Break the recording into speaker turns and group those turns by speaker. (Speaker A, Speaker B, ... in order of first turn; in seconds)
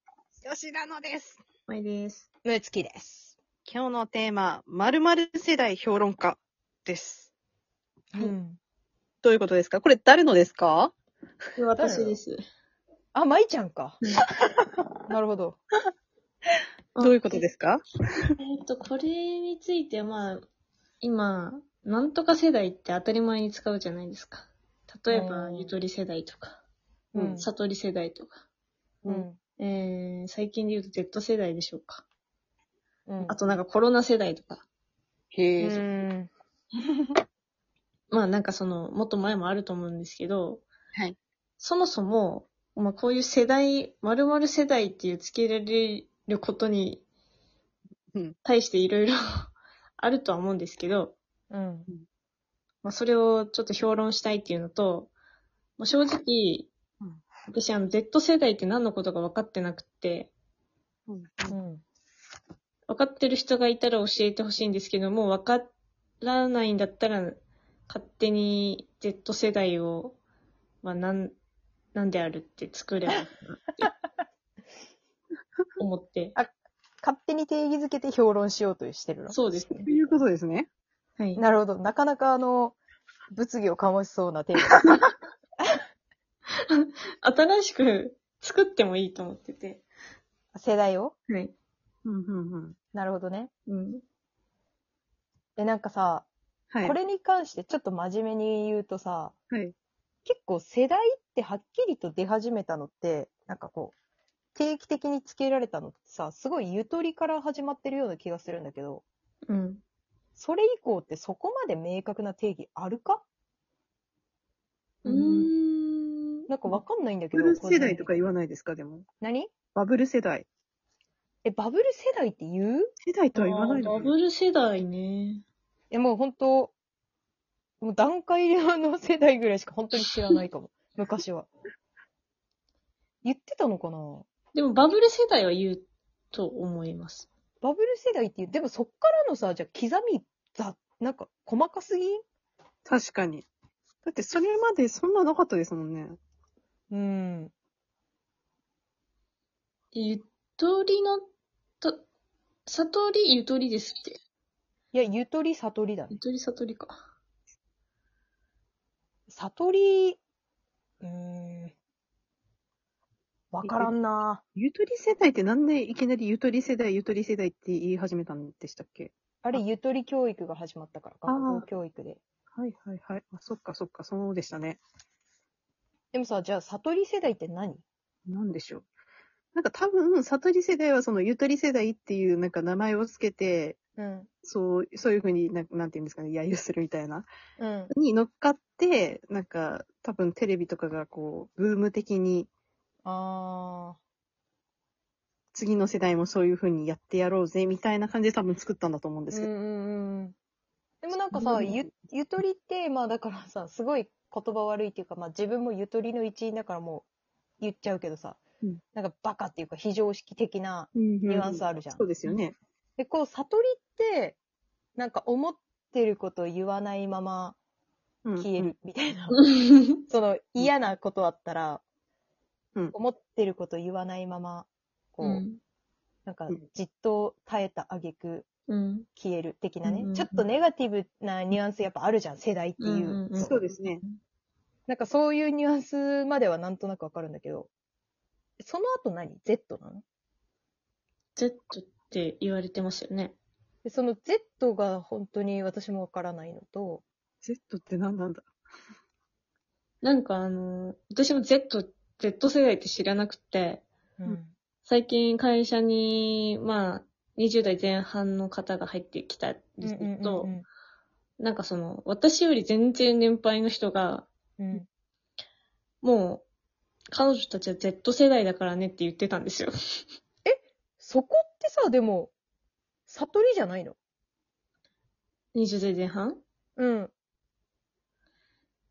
Speaker A: 0.4-1.4, 3.6-7.3, 9.2-10.9, 17.0-17.8, 27.1-27.4, 35.3-35.9, 61.1-61.5, 79.8-80.7, 92.0-92.8, 96.7-97.0, 117.3-119.0, 119.7-120.5, 123.0-124.1, 142.8-143.5, 144.0-146.2, 163.6-163.9, 164.6-169.6, 171.2-171.7, 172.5-174.8, 178.3-178.8, 179.5-183.8, 184.4-187.3, 187.9-192.5, 195.5-199.5, 201.3-201.9, 210.9-212.5, 218.2-218.7, 233.4-234.0, 247.4-248.4
Speaker B: 1.7-2.2, 11.6-12.4, 18.4-20.4, 21.0-26.6, 27.4-28.3, 29.6-32.0, 33.2-34.6, 38.1-40.6, 41.6-47.0, 48.4-51.1, 52.8-55.1, 55.8-56.7, 57.5-60.3, 62.9-70.2, 70.8-71.3, 71.9-73.9, 75.8-76.3, 79.3-79.9, 86.7-89.8, 93.7-94.0, 109.5-109.8, 115.0-116.5, 123.3-125.4, 134.5-137.3, 149.9-151.2, 152.7-154.2, 156.1-157.0, 219.3-220.0, 225.2-225.6, 228.7-229.1, 229.8-230.4, 232.8-234.2, 241.3-243.3, 250.0-260.5, 261.4-264.3, 266.0-266.4, 267.1-270.0, 275.5-276.4
Speaker C: 2.4-3.4, 8.1-8.6, 11.8-12.2, 13.1-14.0, 15.1-15.6, 25.1-25.7, 27.1-27.5, 29.1-29.4, 33.1-33.4, 35.6-36.3, 51.5-51.9, 61.5-61.8, 76.3-79.5, 81.4-82.8, 83.3-85.0, 90.5-91.2, 92.9-93.5, 95.6-96.3, 96.8-99.3, 100.2-103.9, 104.5-109.0, 110.4-113.2, 115.0-115.5, 116.5-118.1, 119.2-119.5, 121.4-122.9, 125.9-126.7, 127.8-131.5, 133.2-134.2, 137.6-142.2, 146.9-147.5, 154.9-156.2, 159.3-160.2, 161.0-161.7, 163.5-164.4, 169.4-172.2, 176.1-177.8, 184.0-184.3, 187.6-187.9, 193.0-194.0, 199.3-200.3, 201.0-207.1, 207.6-208.4, 208.9-212.1, 213.0-214.4, 214.9-217.6, 218.4-219.4, 220.1-221.8, 222.9-225.4, 226.2-228.5, 229.2-233.6, 234.9-237.7, 238.6-240.0, 243.8-247.0, 254.2-254.5, 259.8-260.6, 264.6-264.8, 270.4-272.3, 273.1-274.0, 276.8-277.1